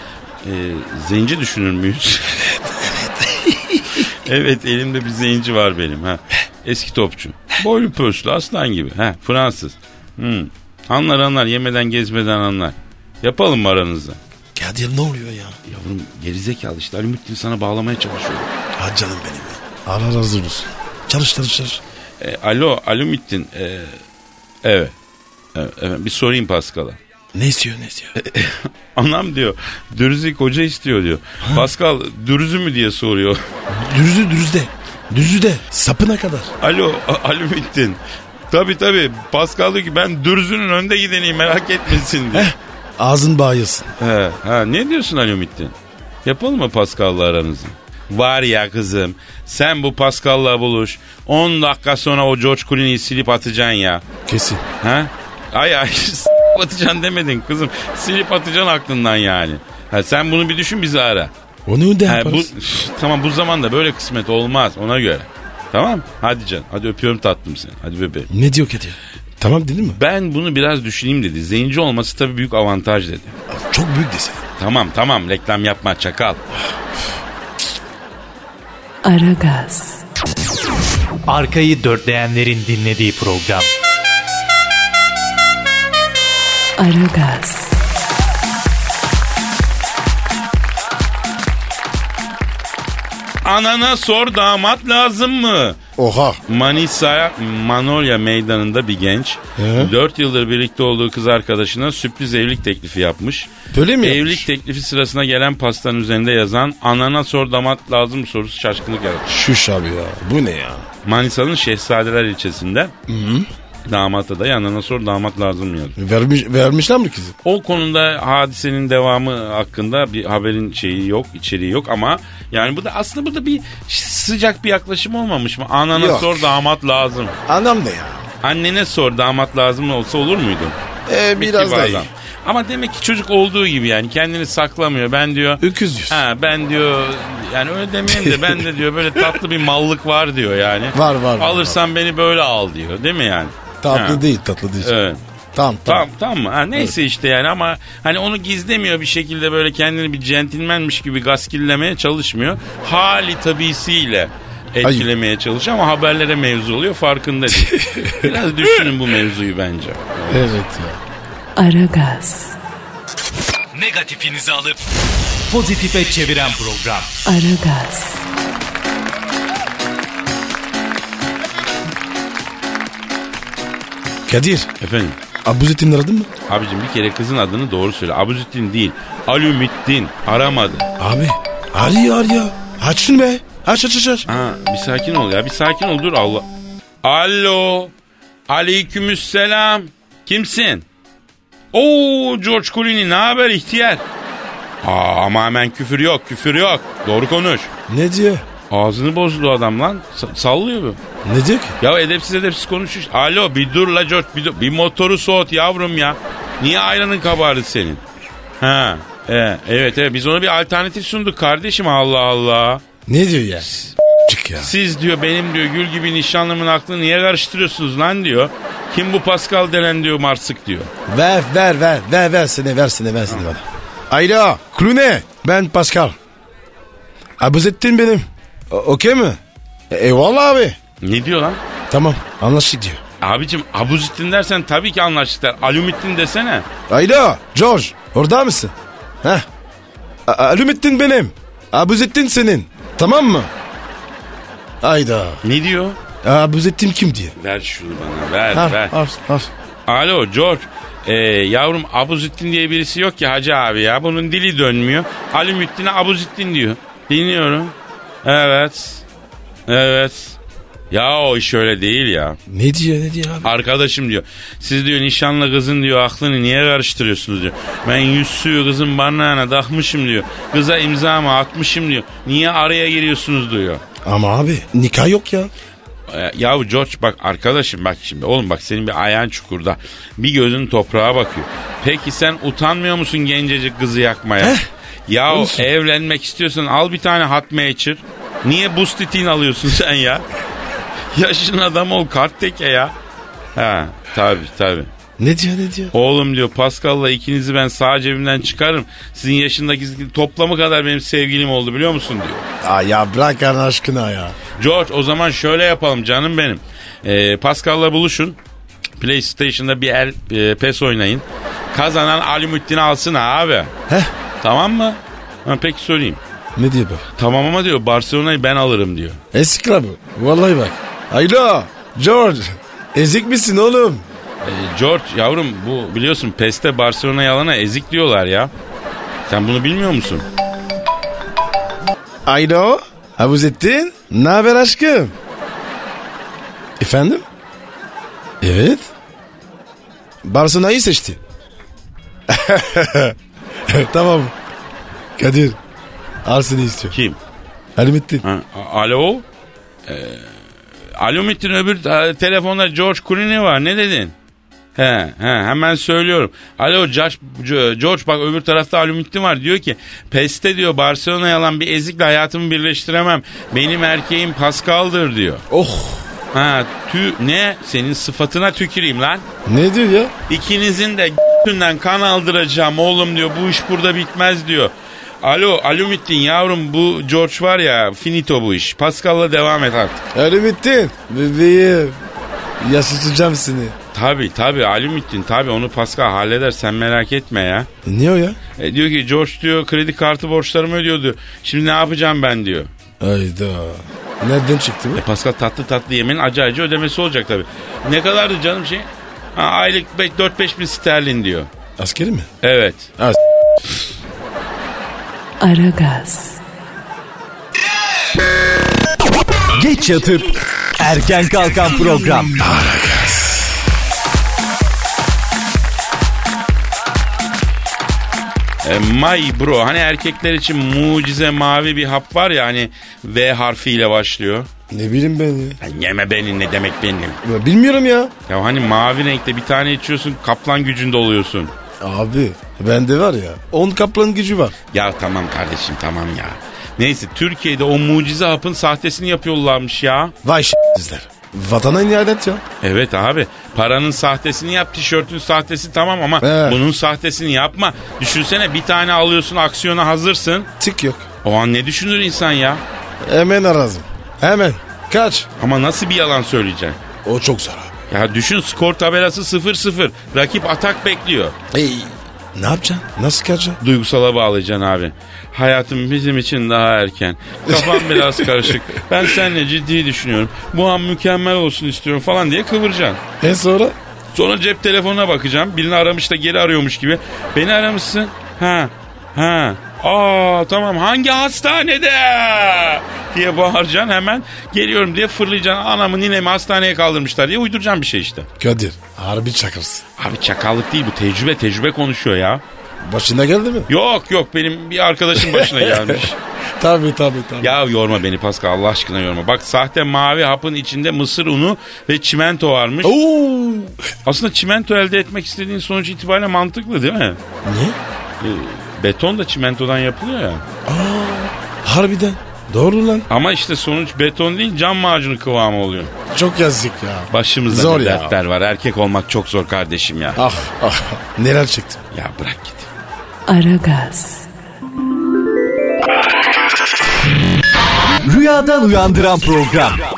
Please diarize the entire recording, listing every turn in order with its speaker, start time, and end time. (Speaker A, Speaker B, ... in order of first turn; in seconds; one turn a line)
Speaker A: 0.4-2.5
Speaker B: 2.4-4.0
Speaker A: 4.0-14.2
Speaker B: 14.5-15.6
Speaker A: 15.7-18.5
Speaker B: 18.8-21.8
Speaker A: 22.2-24.0
Speaker A: 24.6-24.9
Speaker A: 25.5-27.0
Speaker B: 27.3-28.1
Speaker A: 28.1-33.4
Speaker B: 33.7-36.5
Speaker A: 36.6-42.5
Speaker B: 42.3-43.9
Speaker A: 44.0-54.0
Speaker B: 54.2-54.6
Speaker A: 54.8-61.3
Speaker B: 61.7-62.5
Speaker A: 62.0-68.3
Speaker B: 68.3-70.0
Speaker A: 69.9-73.3
Speaker B: 73.5-74.4
Speaker A: 74.6-76.4
Speaker B: 76.6-77.1
Speaker C: 79.0-80.0
Speaker D: 81.3-83.7
Speaker C: 86.8-87.8
Speaker A: 93.4-95.8
Speaker B: 96.0-96.4
Speaker A: 96.5-109.3
Speaker B: 99.6-99.9
Speaker B: 103.7-104.4
Speaker B: 109.3-110.8
Speaker A: 111.0-112.9
Speaker B: 113.1-113.5
Speaker A: 113.8-116.0
Speaker B: 116.0-117.3
Speaker A: 117.4-127.3
Speaker B: 125.9-126.5
Speaker B: 127.5-128.3
Speaker A: 128.4-130.8
Speaker B: 131.1-132.1
Speaker A: 131.3-144.2
Speaker B: 135.6-136.2
Speaker B: 138.1-138.6
Speaker B: 140.9-141.8
Speaker B: 143.8-144.9
Speaker A: 144.8-145.2
Speaker B: 145.5-146.1
Speaker A: 145.8-160.5
Speaker B: 157.6-158.3
Speaker B: 160.3-161.0
Speaker C: 161.6-162.6
Speaker D: 163.7-164.8
Speaker D: 165.5-167.2
Speaker C: 167.2-168.2
Speaker B: 174.3-174.7
Speaker A: 174.8-175.2
Speaker B: 175.4-176.3
Speaker A: 176.5-180.9
Speaker B: 181.0-184.2
Speaker A: 184.3-186.5
Speaker A: 187.0-187.9
Speaker A: 188.5-190.8
Speaker A: 191.7-194.0
Speaker A: 194.8-197.7
Speaker B: 197.9-198.4
Speaker A: 198.7-201.0
Speaker B: 201.2-201.8
Speaker A: 201.8-208.0
Speaker A: 208.6-212.8
Speaker B: 213.1-213.7
Speaker A: 213.6-213.9
Speaker B: 214.3-214.7
Speaker A: 214.6-220.9
Speaker B: 221.1-226.2
Speaker B: 227.4-229.4
Speaker B: 229.9-230.8
Speaker A: 231.0-231.6
Speaker B: 231.9-233.0
Speaker A: 233.2-236.7
Speaker B: 236.9-239.4
Speaker B: 240.3-243.5
Speaker B: 244.8-245.4
Speaker A: 245.4-246.0
Speaker B: 246.2-247.3
Speaker A: 247.4-248.9
Speaker B: 248.5-249.5
Speaker A: 249.9-259.0
Speaker A: 259.7-260.4
Speaker A: 260.9-262.4
Speaker B: 262.5-263.5
Speaker A: 263.4-273.8
Speaker B: 274.0-275.5
Speaker A: 276.1-290.2
Speaker B: 284.4-284.6
Speaker B: 285.3-285.7
Speaker A: 291.1-292.9
Speaker A: 293.5-294.9
Speaker B: 295.2-295.9
Speaker A: 295.9-302.5
Speaker B: 302.6-304.4
Speaker A: 304.6-308.4
Speaker A: 309.0-313.7
Speaker A: 314.4-316.2
Speaker B: 316.6-317.0
Speaker A: 317.2-319.2
Speaker B: 319.3-324.0
Speaker A: 324.4-328.5
Speaker A: 329.3-330.2
Speaker B: 332.2-335.1
Speaker B: 336.8-337.2
Speaker B: 338.4-338.9
Speaker B: 340.2-341.2
Speaker B: 342.3-343.1
Speaker B: 343.7-344.3
Speaker B: 345.2-345.6
Speaker B: 346.2-346.9
Speaker A: 346.9-347.2
Speaker B: 347.8-348.2
Speaker A: 348.2-349.2
Speaker A: 349.9-350.3
Speaker A: 350.9-354.1
Speaker A: 354.8-365.4
Speaker B: 365.5-366.1
Speaker A: 366.3-369.2
Speaker B: 369.4-370.1
Speaker A: 370.3-380.0
Speaker B: 380.1-382.0
Speaker B: 382.6-383.7
Speaker A: 383.9-387.7
Speaker B: 387.8-388.4
Speaker A: 388.6-392.7
Speaker B: 393.0-395.0
Speaker A: 394.9-401.5
Speaker B: 401.8-402.3
Speaker A: 402.4-402.9
Speaker C: 405.4-406.4
Speaker D: 409.5-412.4
Speaker B: 412.4-413.5
Speaker A: 418.6-424.5
Speaker B: 424.7-425.6
Speaker A: 425.6-427.2
Speaker B: 427.2-428.1
Speaker A: 428.3-431.5
Speaker B: 431.8-434.5
Speaker A: 434.7-440.1
Speaker B: 440.2-442.4
Speaker A: 442.6-450.5
Speaker B: 446.2-446.6
Speaker B: 450.6-451.1
Speaker A: 451.2-452.6
Speaker B: 453.0-455.3
Speaker A: 455.4-456.8
Speaker B: 457.0-457.8
Speaker A: 457.9-461.4
Speaker B: 461.5-463.6
Speaker A: 463.6-473.0
Speaker B: 467.5-468.5
Speaker B: 473.2-473.8
Speaker A: 474.1-488.3
Speaker B: 488.4-489.8
Speaker A: 490.0-492.4
Speaker B: 492.8-493.7
Speaker A: 493.7-496.1
Speaker B: 495.1-496.1
Speaker B: 496.6-497.6
Speaker A: 497.4-502.9
Speaker B: 502.8-503.8
Speaker A: 504.0-507.2
Speaker B: 507.4-507.8
Speaker A: 508.2-510.4
Speaker B: 510.6-513.1
Speaker A: 513.1-515.9
Speaker B: 516.1-518.1
Speaker A: 517.1-520.2
Speaker B: 520.1-521.8
Speaker A: 521.9-522.7
Speaker C: 523.3-524.3
Speaker D: 528.0-529.9